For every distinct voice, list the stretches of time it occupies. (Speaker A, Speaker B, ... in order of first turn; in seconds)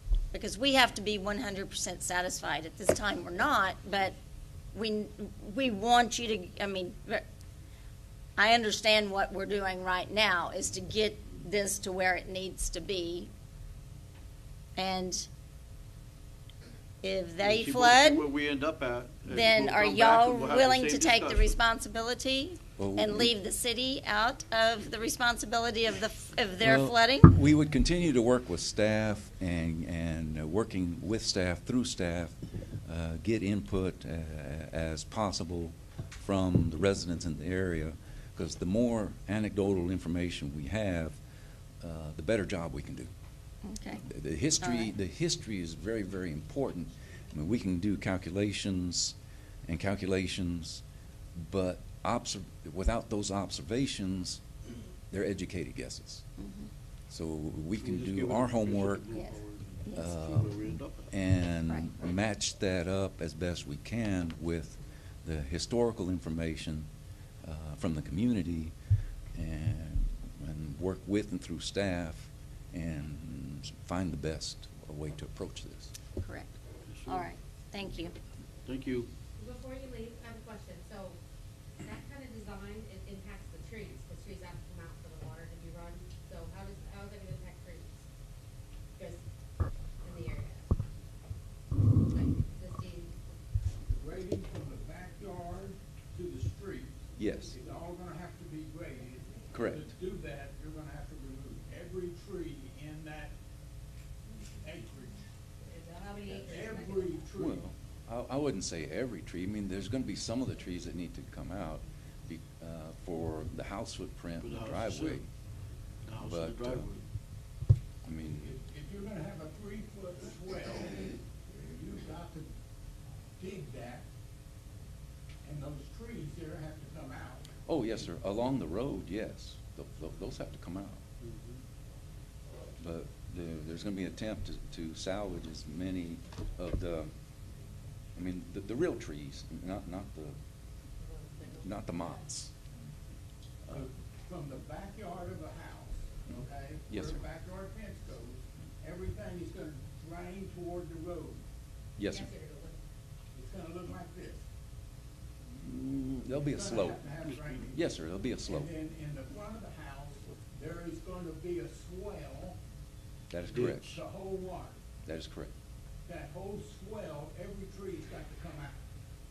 Speaker A: 0.3-4.2, 4.7-7.2, 8.4-13.3, 14.8-15.3, 17.0-18.3, 19.3-27.4, 43.6-44.0, 44.6-44.9, 56.4-56.7, 76.2-76.5, 77.1-78.1
Speaker B: 17.4-21.5, 57.8-61.1, 76.9-77.3, 78.7-79.1, 114.4-115.2, 116.0-117.0, 131.2-131.6, 163.5-163.9
Speaker C: 22.8-23.3, 26.6-41.2, 41.8-43.1, 44.0-49.1, 49.7-50.8, 51.4-54.4, 55.1-56.3, 57.1-59.0, 60.0-66.9, 67.4-68.7, 69.3-75.9, 97.2-97.5, 99.5-99.8, 107.4-115.3, 116.2-116.9, 118.0-118.5, 127.7-131.0, 132.8-137.1, 138.2-140.4, 141.4-142.5, 146.9-147.2, 152.0-152.3, 155.6-157.1, 157.7-158.7, 163.3-164.0, 165.1-165.5
Speaker D: 79.4-81.2, 81.8-88.0, 89.0-89.2, 90.0-90.7, 92.1-93.1, 105.6-107.3, 141.0-141.8, 152.0-152.8
Speaker E: 93.9-103.3, 104.6-105.2, 106.3-107.7, 118.4-122.5, 123.4-124.0, 125.4-127.5, 143.7-151.4, 153.3-154.4, 156.5-157.8, 158.4-162.6, 163.9-164.8, 166.1-168.8